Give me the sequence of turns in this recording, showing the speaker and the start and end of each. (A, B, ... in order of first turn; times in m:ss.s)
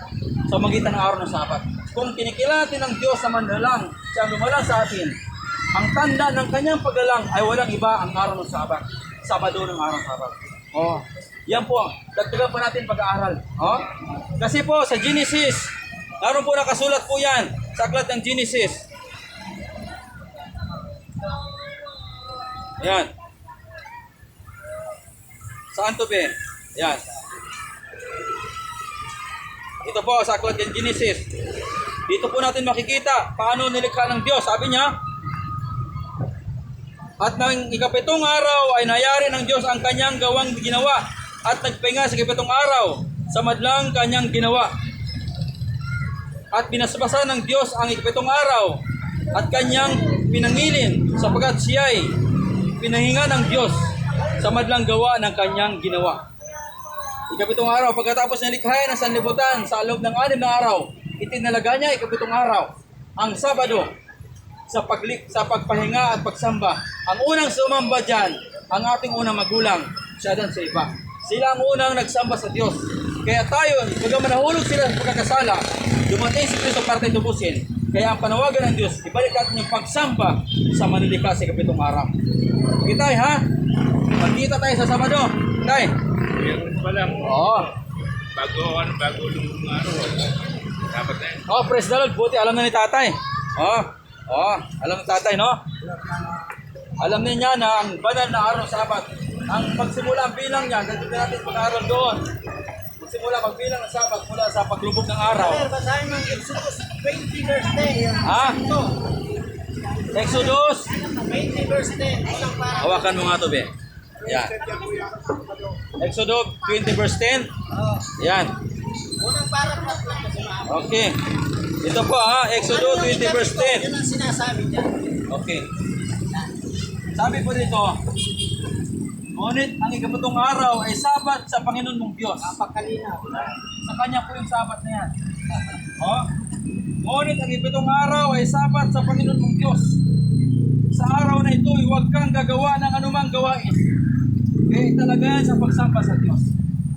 0:00.5-0:05.2 A
0:05.7-0:13.8 A
0:14.4-0:18.8 A
0:22.8-0:23.1 A
0:25.7-0:27.2 A
0:29.8-0:31.2 A
0:32.1-0:34.9 A
0:37.2-0:44.7 A
0:46.5-0:48.8 A
0:49.3-0:52.1 A
0:52.8-0:53.9 A
0:54.4-0:56.2 A
0:57.3-1:03.9 A
1:04.7-1:22.1 A
1:22.8-1:23.4 A
1:24.2-1:25.9 A
1:26.4-1:27.4 B
1:27.2-1:27.7 A
1:28.4-1:30.3 B
1:30.9-1:31.4 B
1:31.4-1:35.6 A
1:37.0-1:42.2 A
1:43.0-1:45.7 A
1:45.4-1:48.9 C
1:48.2-1:48.6 A
1:50.1-1:50.9 A
1:51.0-1:53.0 C
1:52.8-1:53.7 A
1:54.2-1:54.6 A
1:54.4-1:55.5 C
1:56.0-1:57.5 A
1:58.2-1:58.5 A
1:59.2-2:00.9 C
2:00.7-2:01.2 A
2:01.8-2:03.9 A
2:02.6-2:04.9 C
2:05.3-2:05.6 A
2:07.1-2:08.0 A
2:09.4-2:12.6 A
2:12.4-2:13.5 C
2:13.7-2:15.1 A
2:16.0-2:16.3 A
2:17.0-2:20.0 A
2:20.9-2:23.8 A
2:24.7-2:26.5 A